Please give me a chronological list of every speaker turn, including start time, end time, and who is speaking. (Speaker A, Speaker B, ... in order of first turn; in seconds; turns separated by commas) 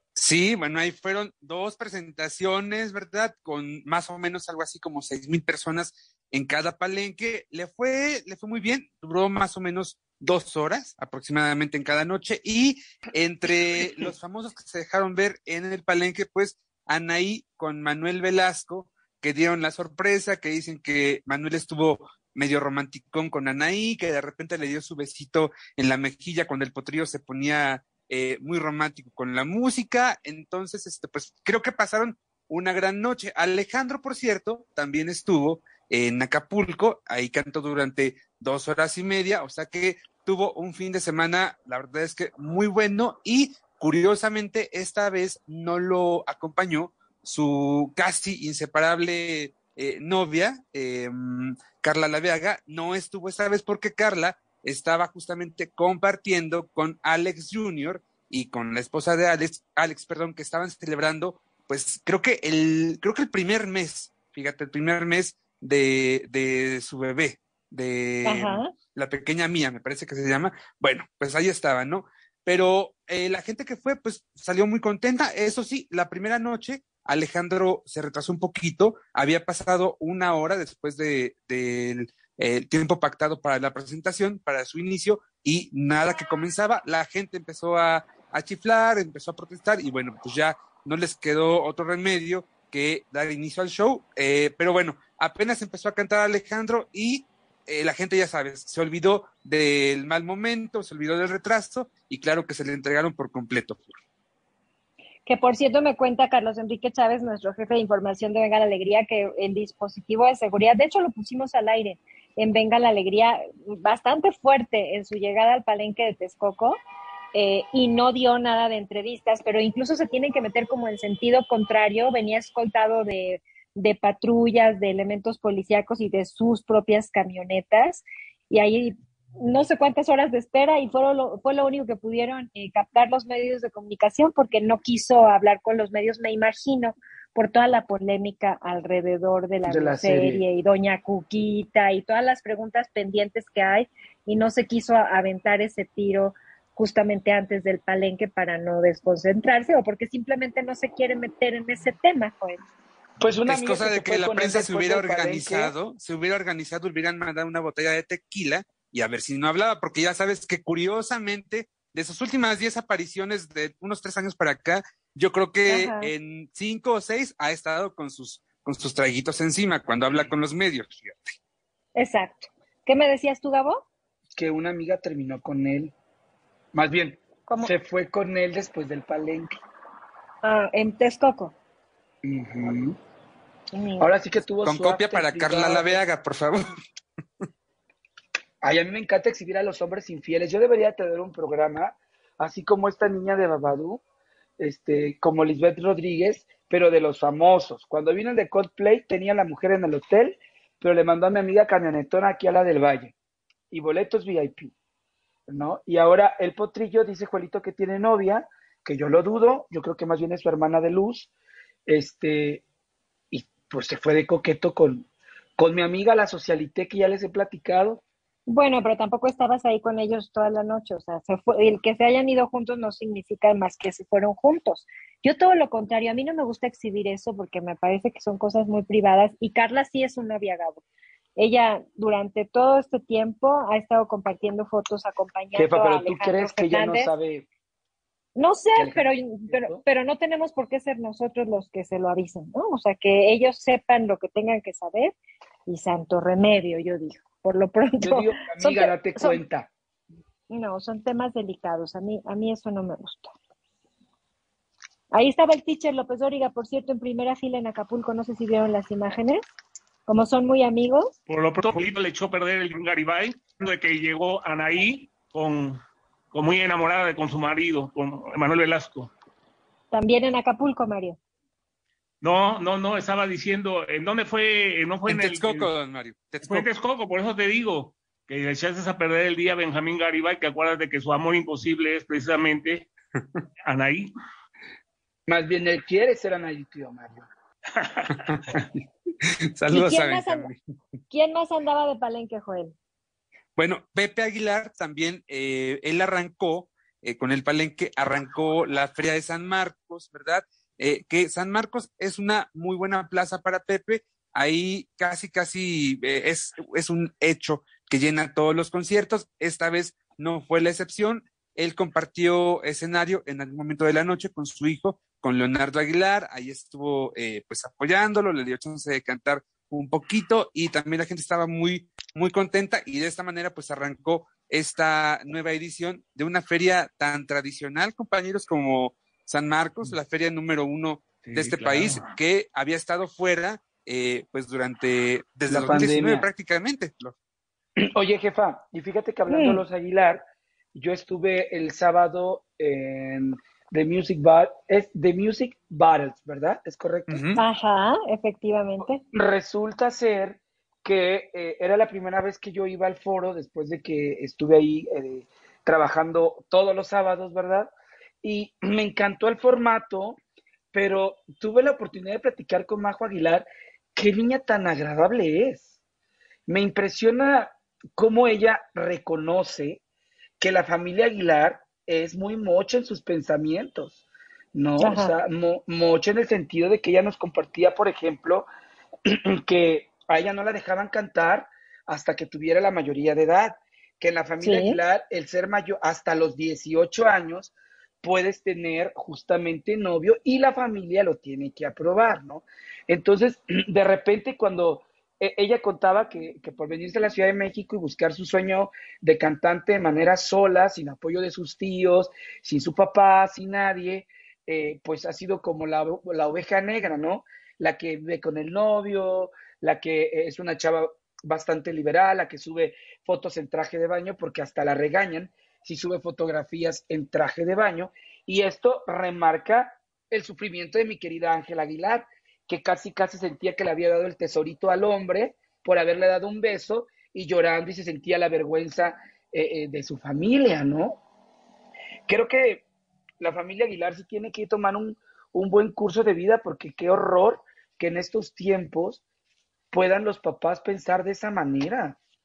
Speaker A: 0.1-104.0, Speaker B: 68.2-68.7, Speaker B: 105.3-116.8, Speaker B: 117.3-152.6, Speaker C: 139.7-140.4, Speaker C: 153.2-155.7, Speaker A: 153.4-171.3, Speaker B: 165.7-166.1, Speaker B: 172.0-173.8, Speaker C: 174.3-175.9, Speaker C: 176.7-179.6, Speaker B: 180.4-181.5, Speaker C: 182.2-183.0, Speaker B: 183.7-184.1, Speaker C: 184.0-186.0, Speaker A: 184.6-186.8, Speaker C: 188.6-194.0, Speaker C: 194.6-203.1, Speaker C: 203.7-204.7, Speaker C: 205.5-211.3, Speaker C: 211.9-212.6, Speaker C: 213.3-215.1, Speaker C: 215.6-218.0, Speaker B: 218.5-230.8, Speaker B: 231.4-237.1, Speaker C: 235.5-237.4, Speaker B: 238.3-245.1, Speaker C: 238.8-239.8, Speaker B: 245.7-249.4, Speaker C: 248.0-249.7, Speaker B: 250.5-253.3, Speaker B: 255.1-259.4, Speaker B: 260.1-261.1, Speaker D: 261.3-265.8, Speaker D: 266.3-269.1, Speaker B: 269.9-271.2, Speaker D: 272.2-275.7, Speaker A: 275.1-276.7, Speaker D: 276.4-282.9, Speaker D: 283.6-284.1, Speaker C: 285.3-287.3, Speaker D: 287.8-288.6, Speaker A: 288.1-290.6, Speaker B: 289.7-290.5, Speaker B: 291.1-292.7, Speaker A: 293.6-337.1, Speaker D: 331.2-332.1, Speaker C: 335.5-336.3, Speaker C: 337.8-347.3, Speaker B: 339.3-339.6, Speaker A: 347.1-347.4, Speaker B: 347.4-349.0, Speaker C: 349.1-360.2, Speaker C: 360.7-365.7, Speaker C: 366.5-369.8, Speaker C: 370.4-374.0, Speaker C: 374.5-378.5, Speaker B: 374.8-375.1, Speaker C: 379.1-431.0, Speaker B: 384.4-384.8, Speaker C: 432.1-432.6, Speaker C: 433.2-439.0, Speaker C: 439.7-442.0